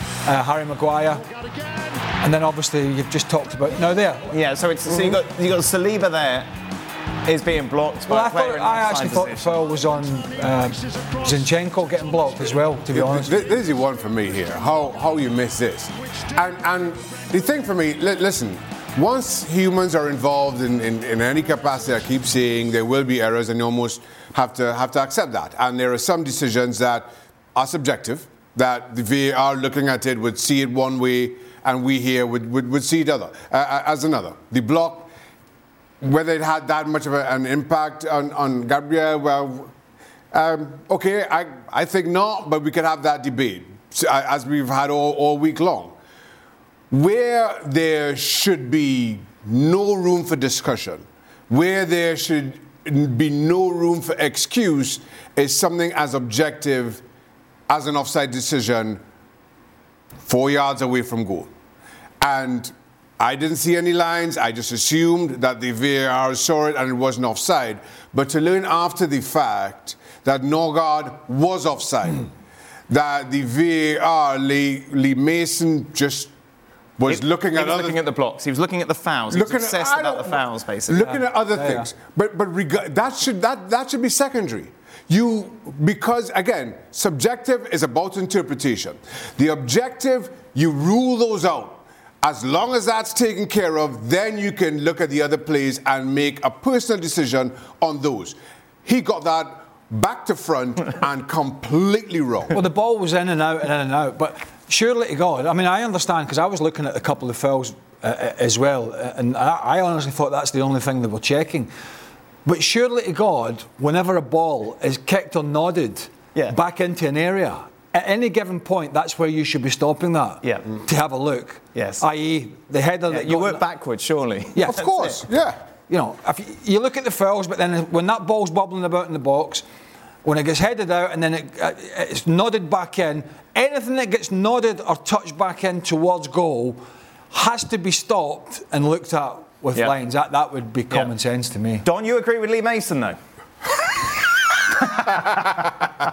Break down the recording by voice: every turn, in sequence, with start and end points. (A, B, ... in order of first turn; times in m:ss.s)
0:00.2-0:01.3 A
0:02.2-0:04.4 A
0:04.3-0:06.5 B
0:07.2-0:09.5 B
0:08.1-0:13.3 A
0:12.9-0:35.1 C
0:36.0-0:39.7 C
0:40.3-0:46.0 C
0:46.9-0:57.0 C
0:57.7-0:59.0 C
1:00.3-1:01.5 C
1:02.2-1:12.3 C
1:12.9-1:16.3 C
1:17.0-1:18.0 C
1:17.1-1:21.1 B
1:19.3-1:42.6 C
1:21.0-1:21.9 A
1:42.5-1:51.7 A
1:52.4-2:03.6 A
2:01.8-2:02.0 B
2:03.1-2:05.2 B
2:04.5-2:04.9 A
2:04.6-2:05.6 C
2:05.9-2:09.6 A
2:10.2-2:21.8 A
2:21.8-2:23.2 B